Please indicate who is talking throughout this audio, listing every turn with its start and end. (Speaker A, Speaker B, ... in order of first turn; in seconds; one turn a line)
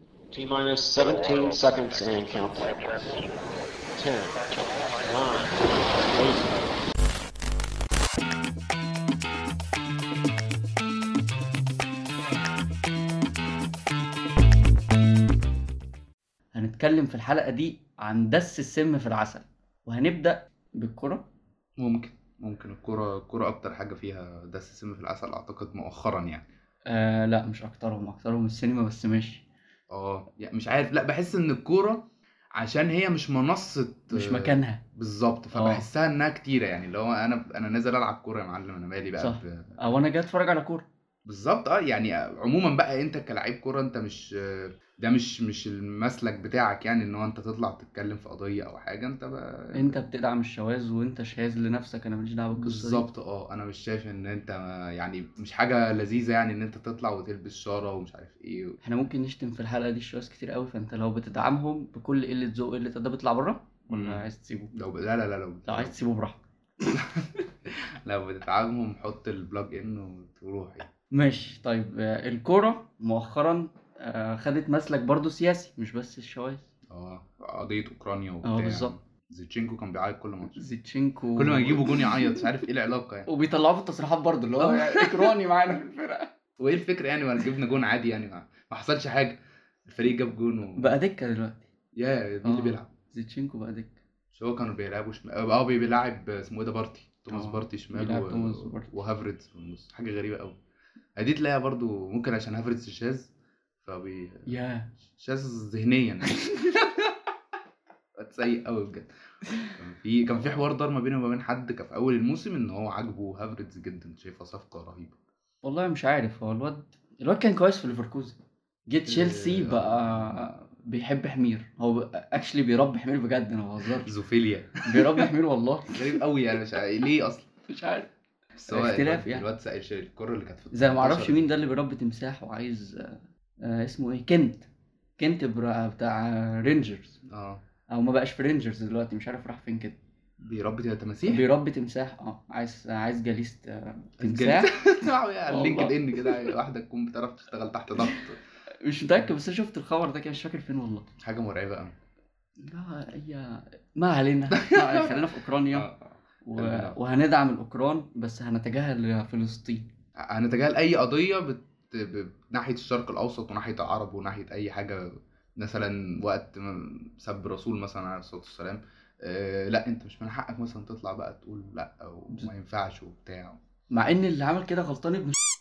Speaker A: 0.3-3.1
Speaker A: 4.0-6.8
Speaker B: 16.5-21.3
Speaker C: 21.8-26.5
Speaker B: 26.9-29.4
Speaker C: 29.9-39.7
Speaker B: 34.1-34.8
Speaker B: 35.5-35.9
Speaker B: 39.2-40.9
Speaker C: 41.3-50.0
Speaker B: 49.7-53.1
Speaker C: 52.6-58.8
Speaker B: 58.8-64.8
Speaker C: 63.9-64.2
Speaker C: 64.7-66.0
Speaker B: 65.7-66.4
Speaker C: 66.9-70.9
Speaker B: 71.1-76.7
Speaker C: 76.9-80.6
Speaker B: 78.4-79.0
Speaker B: 80.5-82.5
Speaker C: 81.3-83.3
Speaker B: 83.3-86.3
Speaker C: 84.6-85.3
Speaker C: 86.6-90.9
Speaker B: 90.7-91.7
Speaker C: 92.0-92.9
Speaker B: 92.4-94.0
Speaker C: 94.3-100.6
Speaker B: 97.3-98.9
Speaker C: 101.2-103.3
Speaker C: 103.8-104.5
Speaker B: 104.5-104.9
Speaker C: 105.2-106.4
Speaker B: 106.5-106.7
Speaker C: 108.2-109.1
Speaker C: 109.7-115.2
Speaker B: 115.6-124.1
Speaker C: 119.1-120.5
Speaker C: 124.0-125.3
Speaker B: 124.8-126.0
Speaker C: 125.9-127.5
Speaker B: 127.7-128.1
Speaker C: 128.6-131.5
Speaker B: 128.7-129.4
Speaker B: 130.7-134.7
Speaker B: 135.2-137.2
Speaker C: 137.3-137.6
Speaker B: 137.9-140.0
Speaker C: 140.4-141.4
Speaker B: 141.3-146.5
Speaker C: 144.2-148.4
Speaker B: 148.8-151.1
Speaker C: 151.2-151.9
Speaker B: 152.6-155.9
Speaker C: 154.5-157.0
Speaker B: 156.4-159.9
Speaker C: 160.2-173.6
Speaker B: 173.9-175.4